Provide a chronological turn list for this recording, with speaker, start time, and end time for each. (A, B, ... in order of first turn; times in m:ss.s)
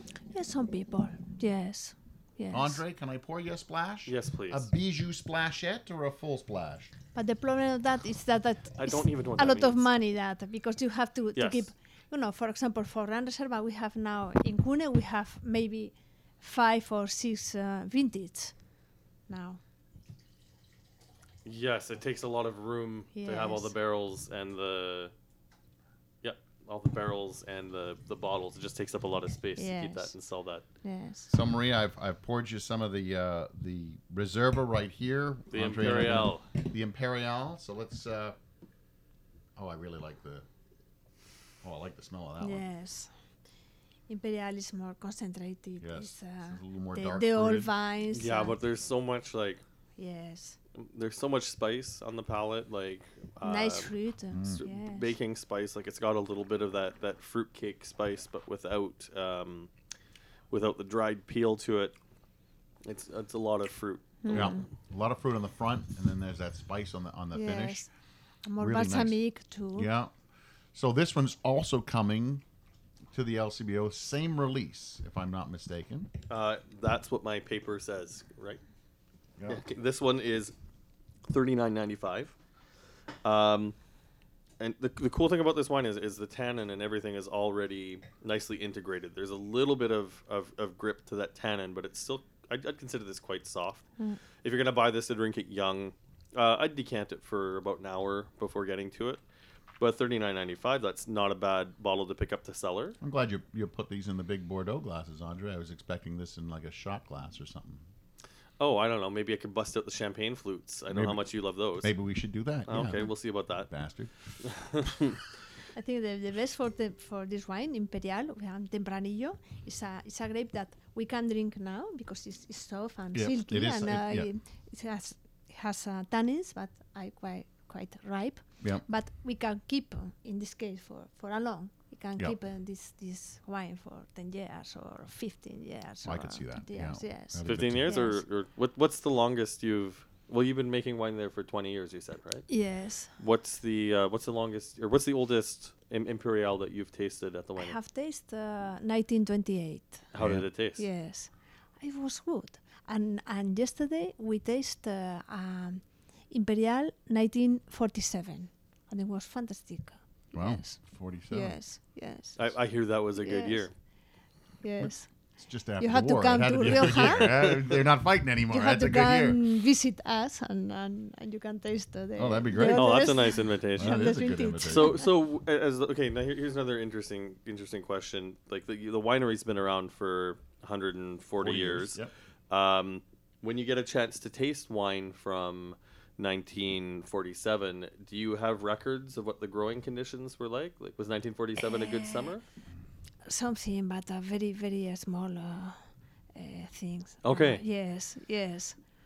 0:00.3-0:02.8 A
0:02.5-0:06.9 B
0:04.1-0:04.7 C
0:07.1-0:18.5 A
0:08.8-0:09.8 C
0:11.4-0:11.7 C
0:19.3-0:19.6 A
0:21.4-0:25.1 C
0:23.1-0:23.7 A
0:26.2-0:30.6 C
0:29.6-0:30.1 A
0:30.8-0:31.3 A
0:31.3-0:38.4 B
0:35.5-0:36.4 C
0:39.6-0:40.4 B
0:41.6-0:42.6 B
0:42.4-0:43.1 A
0:44.1-0:48.6 A
0:45.8-0:47.7 B
0:48.1-0:49.6 C
0:50.0-0:50.6 A
0:50.7-0:53.9 C
0:53.4-0:55.1 A
0:54.3-0:54.6 B
0:54.5-0:59.7 C
1:00.5-1:01.9 C
1:02.8-1:04.5 C
1:04.2-1:04.6 A
1:04.3-1:07.8 B
1:07.3-1:07.9 A
1:08.4-1:09.9 A
1:08.6-1:09.2 B
1:09.7-1:10.1 B
1:10.7-1:12.4 B
1:13.1-1:16.1 B
1:16.3-1:18.6 C
1:19.4-1:19.6 B
1:19.5-1:20.5 C
1:21.3-1:22.3 C
1:23.2-1:23.7 C
1:24.6-1:33.9 C
1:34.4-1:39.2 C
1:39.8-1:43.0 C
1:43.0-1:47.8 B
1:48.6-1:51.9 C
1:50.9-1:51.2 B
1:51.8-1:53.1 B
1:52.7-1:53.7 C
1:53.7-1:54.1 B
1:54.4-1:55.2 C
1:55.7-2:18.2 A
2:03.1-2:04.3 B
2:16.0-2:17.9 B
2:17.4-2:22.5 C
2:22.5-2:23.1 A
2:23.2-2:27.8 C
2:27.6-2:30.1 A
2:30.1-2:30.8 C
2:30.2-2:30.4 B
2:30.8-2:42.5 A
2:40.3-2:41.5 B
2:42.4-2:43.7 C
2:43.2-2:43.7 A
2:44.6-2:45.1 A
2:44.8-2:49.4 B
2:45.8-2:47.4 A
2:46.7-2:47.8 C
2:48.5-2:55.1 A
2:52.2-2:53.1 B
2:52.6-3:02.0 C
2:53.8-2:55.0 B
3:01.4-3:02.1 B
3:02.5-3:12.4 C
3:11.6-3:12.3 A
3:13.2-3:18.8 A
3:17.2-3:17.6 C